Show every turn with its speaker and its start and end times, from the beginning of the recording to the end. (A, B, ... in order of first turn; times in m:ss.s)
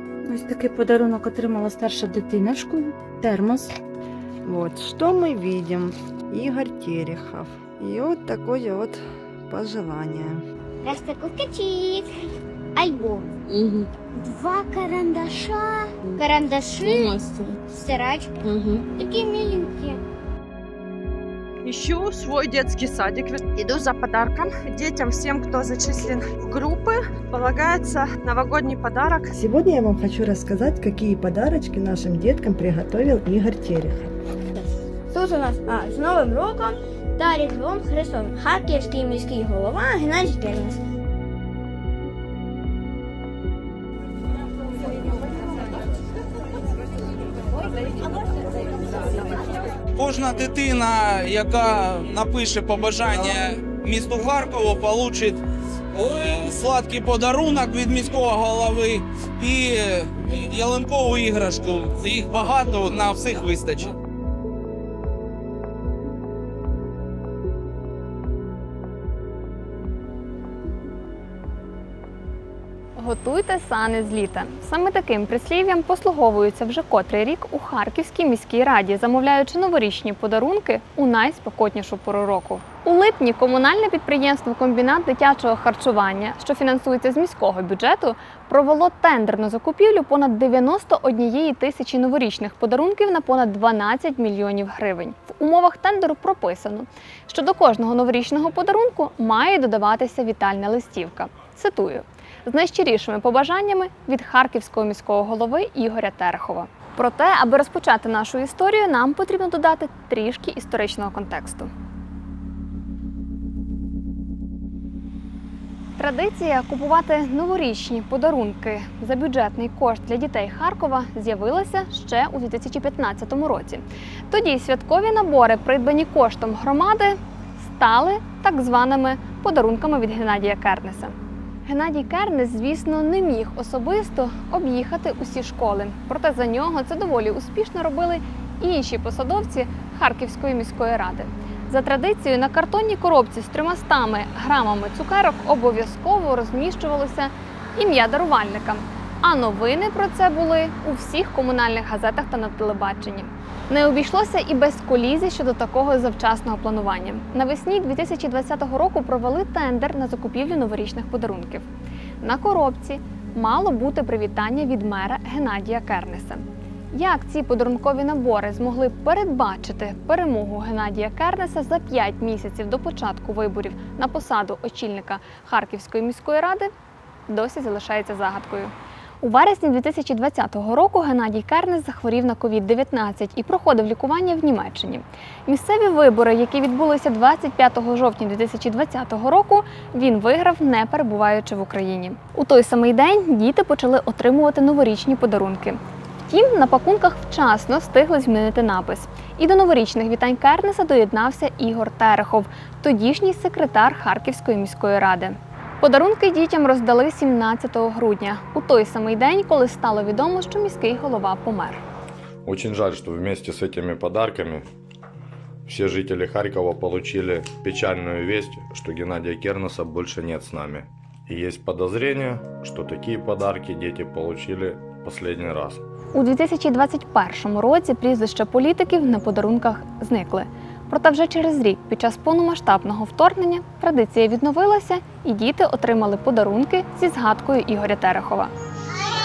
0:00.2-0:03.7 A
0:04.4-0:10.4 B
0:10.8-0:12.0 C
0:12.8-0:13.2 C
0:14.9-0:15.1 C
0:16.2-0:17.1 C
0:16.8-0:17.1 D
0:17.8-0:18.2 C
0:21.6-0:29.3 D
0:29.4-0:34.1 B
0:34.6-0:40.8 E
0:49.9-0:55.4 F
0:55.9-1:03.9 F
1:13.0-1:51.7 G
1:56.0-2:11.1 G
2:11.6-2:41.6 G
2:42.2-2:56.7 G
2:57.3-3:31.8 G
3:32.4-3:34.6 H
3:35.6-3:45.8 H
3:46.1-3:58.5 G